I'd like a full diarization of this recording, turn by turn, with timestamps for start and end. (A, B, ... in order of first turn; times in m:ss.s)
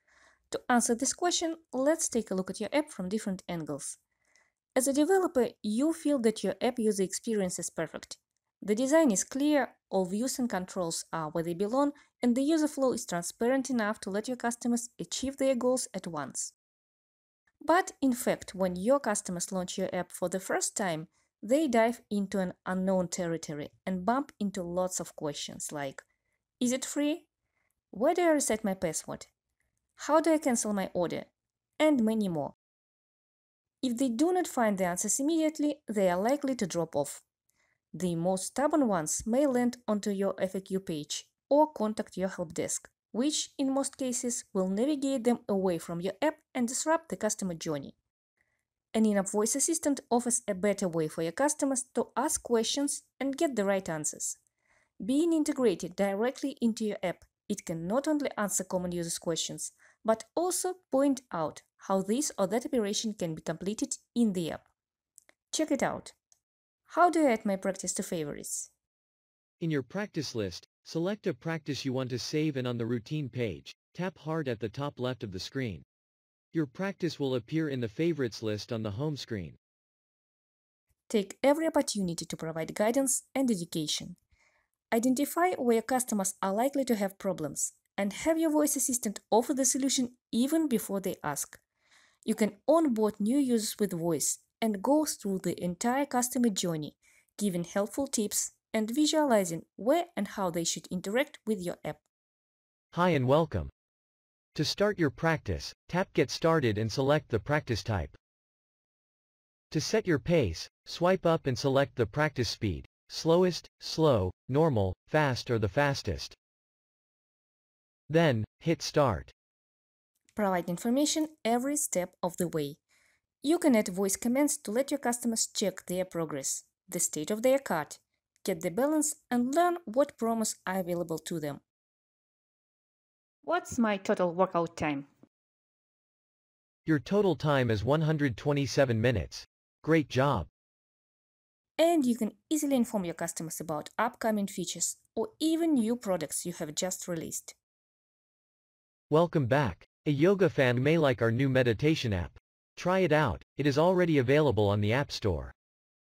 0:00.5-0:04.0 A
0:04.8-0:16.5 A
0:17.6-0:26.0 A
0:26.6-0:27.3 A
0:27.9-0:29.3 A
0:30.0-0:32.6 A
0:33.8-0:37.2 A
0:37.9-0:48.0 A
0:48.9-0:54.4 A
0:55.0-1:04.6 A
1:05.5-1:06.2 A
1:06.9-1:08.7 A
1:09.6-1:15.8 B
1:16.5-1:19.6 B
1:21.1-1:24.2 A
1:24.9-1:31.6 A
1:32.2-1:42.0 A
1:42.9-1:43.7 B
1:44.5-1:48.2 B
1:49.7-1:56.4 B
1:58.1-1:59.3 B
2:00.4-2:02.8 A
2:03.4-2:11.6 A
2:13.4-2:15.1 A
2:16.8-2:20.5 B
2:21.8-2:27.6 A
2:29.1-2:35.5 B